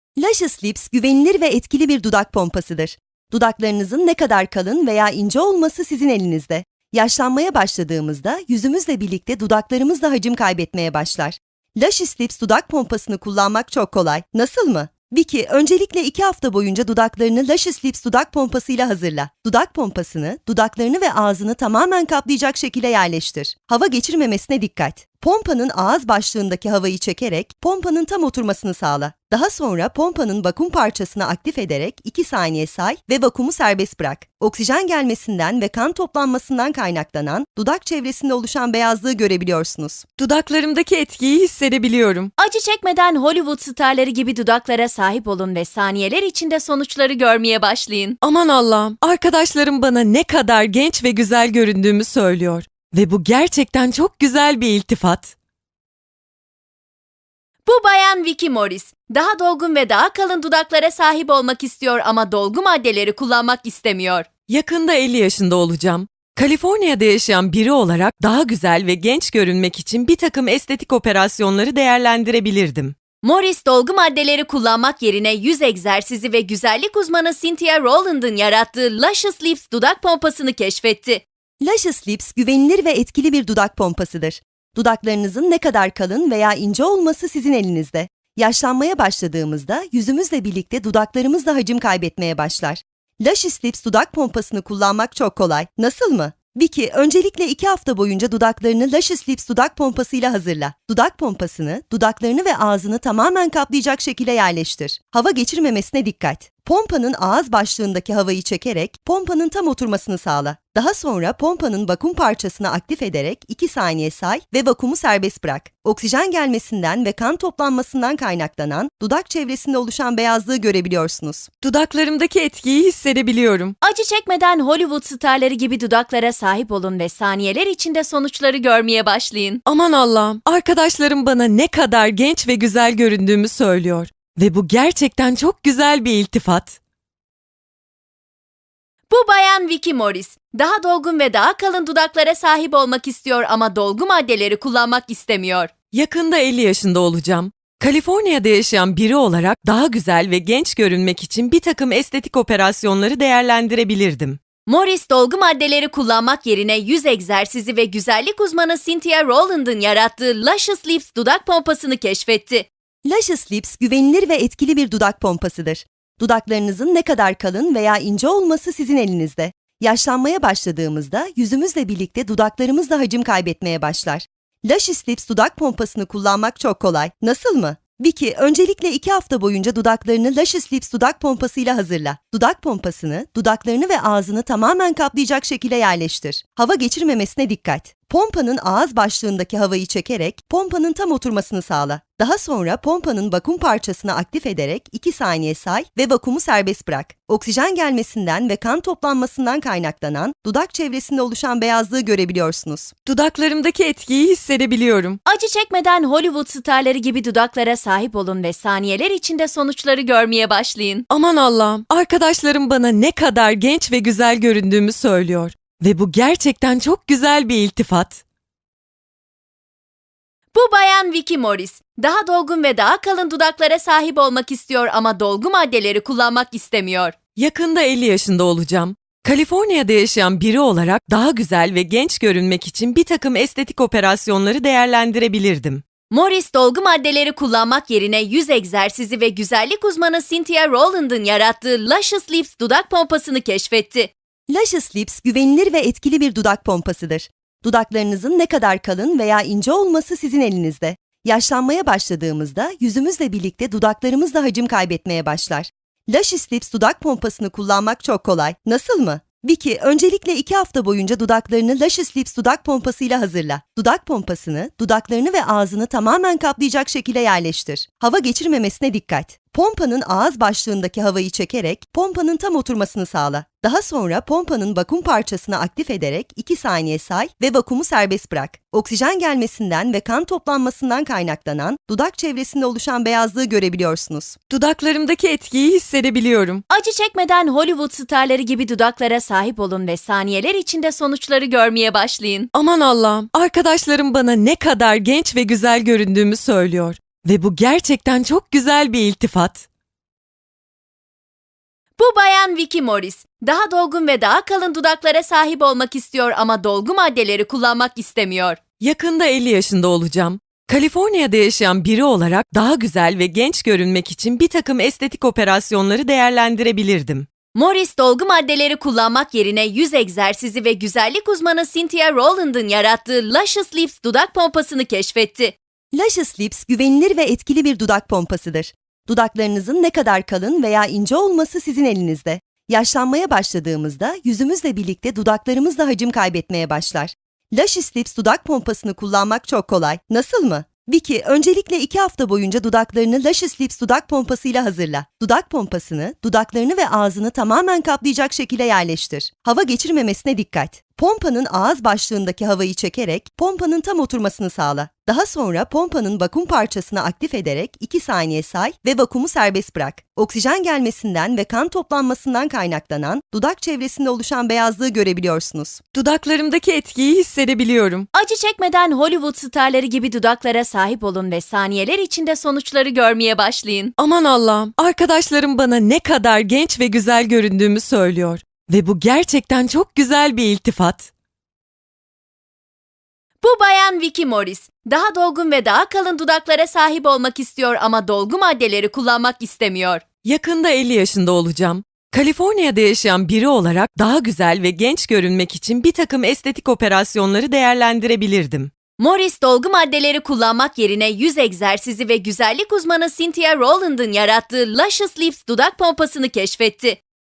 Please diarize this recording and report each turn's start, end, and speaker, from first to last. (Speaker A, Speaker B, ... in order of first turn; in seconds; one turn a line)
Speaker A: 0.2-40.0
Speaker B: 40.2-42.3
Speaker C: 42.4-48.2
Speaker B: 48.2-55.3
Speaker C: 57.7-64.3
Speaker B: 64.5-72.9
Speaker C: 73.2-81.2
Speaker A: 81.6-121.5
Speaker B: 121.6-123.8
Speaker C: 123.8-129.6
Speaker B: 129.7-136.8
Speaker C: 139.1-145.7
Speaker B: 145.9-154.4
Speaker C: 154.7-162.7
Speaker A: 163.1-202.9
Speaker B: 203.1-205.2
Speaker C: 205.3-211.1
Speaker B: 211.1-218.2
Speaker C: 220.5-227.2
Speaker B: 227.4-235.8
Speaker C: 236.1-244.1
Speaker A: 244.5-284.4
Speaker B: 284.5-286.6
Speaker C: 286.7-292.5
Speaker B: 292.5-299.7
Speaker C: 302.0-308.6
Speaker B: 308.8-317.3
Speaker C: 317.6-325.6
Speaker A: 325.9-365.8
Speaker B: 365.9-368.1
Speaker C: 368.1-373.9
Speaker B: 374.0-381.1
Speaker C: 383.4-390.0
Speaker B: 390.2-398.7
Speaker C: 399.0-407.0